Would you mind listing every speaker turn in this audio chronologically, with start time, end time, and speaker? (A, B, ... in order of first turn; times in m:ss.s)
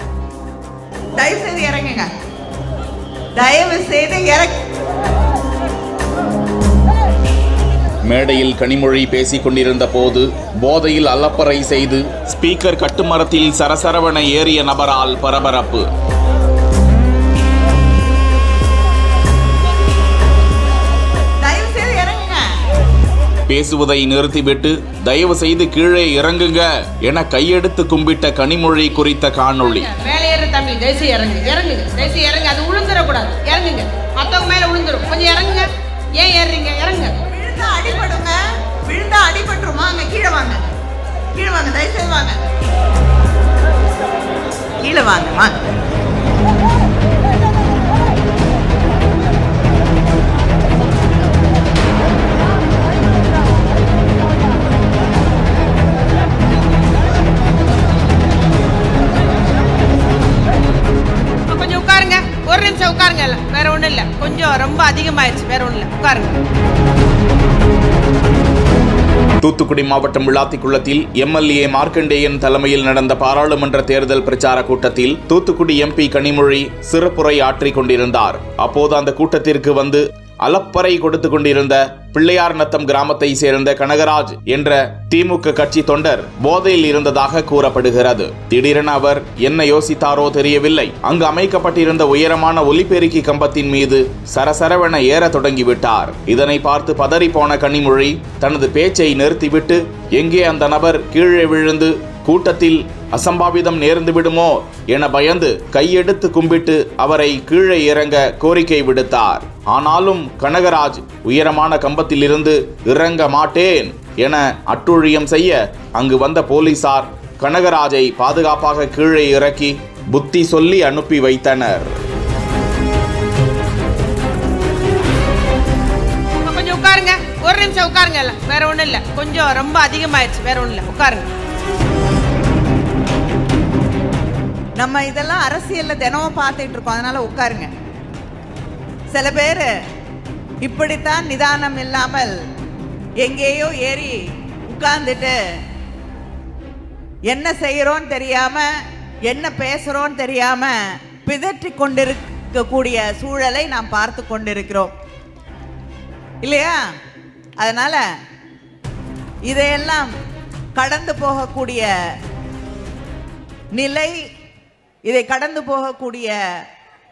0:01.2-0:02.1 A
0:03.4-0:04.6 A
0:08.0-0:15.9 B
0:21.4-0:22.5 A
0:23.5-0:29.9 B
0:29.9-0:37.1 C
0:37.3-0:40.6 A
0:41.4-0:42.4 A
0:44.8-0:45.5 A
1:01.5-1:06.4 C
1:09.4-2:02.0 B
2:06.4-2:11.2 C
2:14.8-2:17.7 A
2:19.1-2:19.7 A
2:20.6-2:22.3 A
2:23.2-2:24.2 A
2:24.7-2:25.3 A
2:27.3-2:28.6 A
2:29.3-2:34.9 A
2:36.4-2:36.8 A
2:37.6-2:38.0 A
2:39.5-2:40.1 A
2:40.8-2:41.9 A
2:43.7-2:44.2 A
2:45.1-2:46.3 A